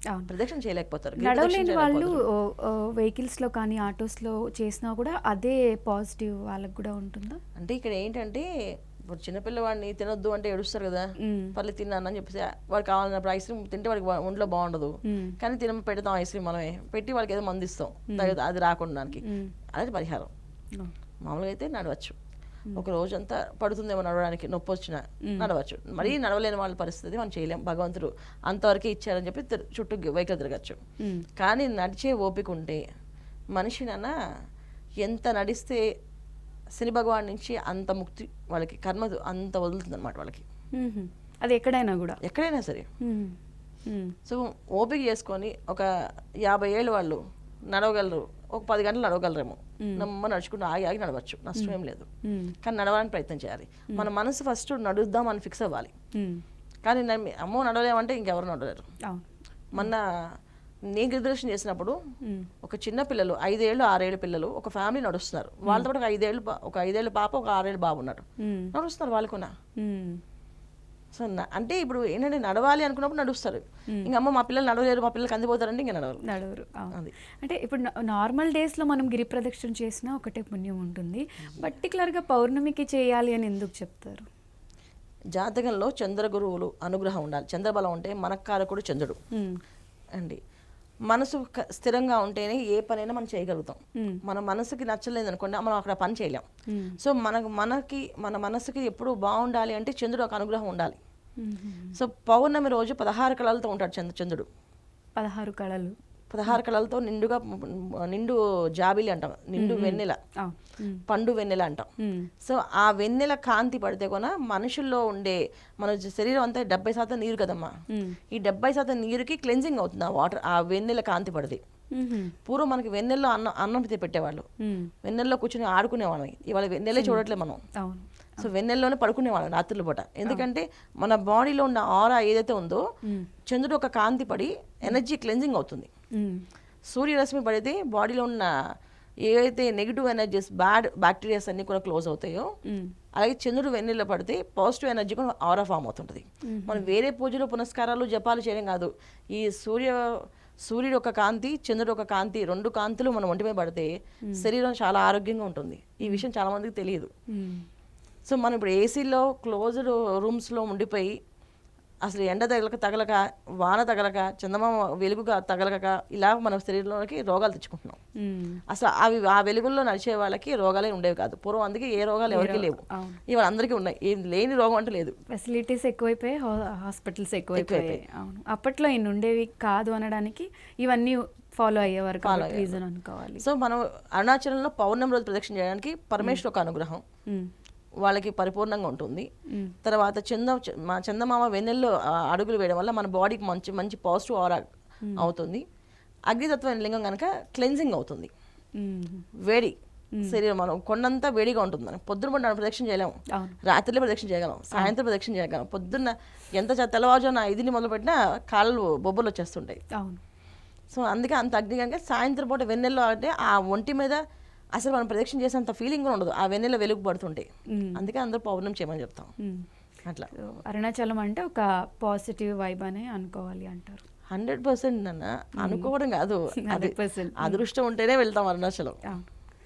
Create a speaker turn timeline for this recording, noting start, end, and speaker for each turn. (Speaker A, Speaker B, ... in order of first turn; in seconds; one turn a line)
Speaker A: 0.3-2.2
Speaker B: 1.2-7.4
Speaker A: 7.6-8.5
Speaker A: 9.1-20.3
Speaker B: 11.2-11.6
Speaker B: 15.1-15.4
Speaker B: 19.2-19.5
Speaker A: 21.2-22.2
Speaker A: 22.8-30.8
Speaker B: 31.0-31.3
Speaker A: 31.4-32.8
Speaker A: 33.5-34.1
Speaker A: 35.0-35.8
Speaker A: 36.8-40.4
Speaker B: 40.8-42.2
Speaker A: 42.2-42.9
Speaker B: 43.0-44.2
Speaker A: 44.3-45.9
Speaker A: 46.4-52.1
Speaker B: 49.8-50.1
Speaker B: 51.6-52.5
Speaker A: 52.6-55.9
Speaker B: 56.2-56.4
Speaker A: 56.9-58.9
Speaker A: 59.7-60.1
Speaker A: 60.9-62.0
Speaker A: 62.6-69.5
Speaker B: 68.4-68.7
Speaker B: 69.8-70.2
Speaker A: 71.1-76.2
Speaker B: 76.2-84.3
Speaker A: 85.3-89.2
Speaker B: 89.3-89.6
Speaker A: 91.1-96.5
Speaker B: 96.7-97.0
Speaker A: 97.0-101.0
Speaker B: 101.4-102.0
Speaker A: 102.0-104.5
Speaker B: 105.2-106.0
Speaker A: 106.3-110.2
Speaker B: 109.6-111.0
Speaker A: 111.1-111.9
Speaker B: 112.0-112.3
Speaker A: 112.4-117.7
Speaker B: 117.9-118.2
Speaker A: 118.3-121.6
Speaker B: 122.0-122.4
Speaker A: 122.5-124.5
Speaker B: 124.6-124.9
Speaker A: 125.0-127.6
Speaker B: 127.8-128.5
Speaker A: 128.4-132.8
Speaker A: 133.5-135.9
Speaker B: 136.2-136.4
Speaker A: 136.9-138.5
Speaker A: 139.3-142.5
Speaker B: 142.7-142.9
Speaker A: 143.2-150.1
Speaker B: 146.5-146.9
Speaker A: 150.6-157.1
Speaker B: 157.3-157.7
Speaker A: 158.3-161.1
Speaker A: 162.0-168.0
Speaker B: 168.2-168.6
Speaker A: 168.7-175.1
Speaker B: 172.3-173.2
Speaker B: 175.3-183.4
Speaker A: 177.6-178.0
Speaker A: 182.2-182.8
Speaker A: 183.4-187.0
Speaker A: 188.0-189.3
Speaker A: 189.8-194.7
Speaker A: 195.2-195.6
Speaker A: 196.3-198.3
Speaker B: 198.8-199.3
Speaker A: 199.4-203.1
Speaker B: 203.3-203.6
Speaker A: 203.7-209.8
Speaker B: 210.0-210.2
Speaker A: 210.9-214.2
Speaker A: 214.8-219.3
Speaker B: 217.7-218.1
Speaker B: 219.4-219.7
Speaker B: 220.3-224.0
Speaker A: 224.3-229.0
Speaker B: 225.6-225.9
Speaker B: 226.7-227.6